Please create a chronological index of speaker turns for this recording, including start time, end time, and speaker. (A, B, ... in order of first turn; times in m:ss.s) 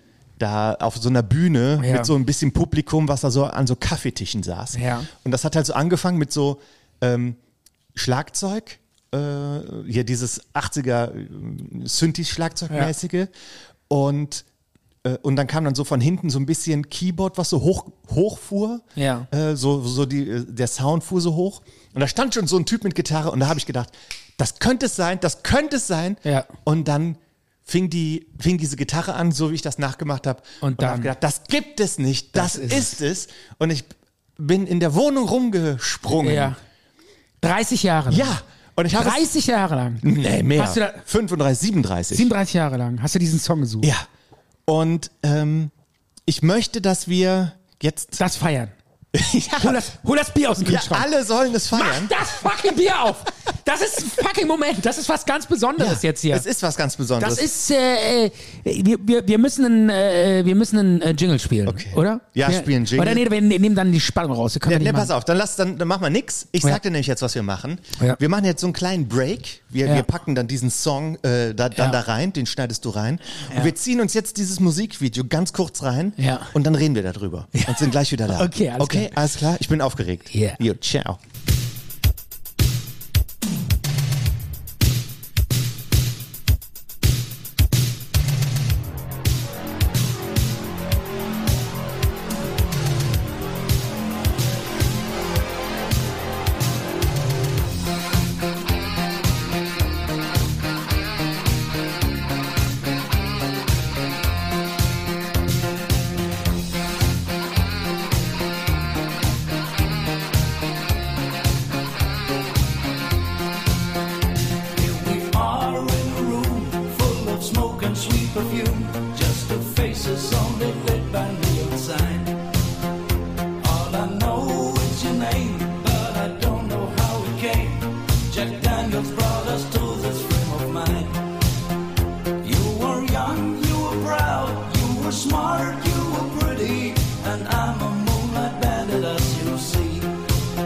0:00.4-0:07.4 A
0:01.8-0:02.1 B
0:04.7-0:05.1 B
0:08.0-0:13.3 A
0:13.9-0:14.4 A
0:15.0-0:36.6 A
0:19.0-0:19.3 B
0:30.6-0:31.1 B
0:32.3-0:33.0 B
0:36.2-0:36.6 B
0:37.4-0:38.4 B
0:38.1-0:39.3 A
0:38.9-0:41.0 B
0:40.0-0:42.3 A
0:42.1-0:43.9 B
0:44.7-0:45.7 A
0:46.3-0:48.2 A
0:48.2-0:48.8 B
0:49.1-0:49.9 A
0:49.6-0:51.1 B
0:50.6-0:52.1 A
0:51.7-0:56.5 B
0:55.8-0:57.5 A
0:57.2-1:05.1 B
1:01.6-1:03.2 A
1:04.7-1:21.2 A
1:11.8-1:12.0 B
1:16.2-1:16.5 B
1:17.5-1:19.2 B
1:20.3-1:20.6 B
1:54.8-2:02.4 C
2:03.6-2:11.2 C
2:12.4-2:20.1 C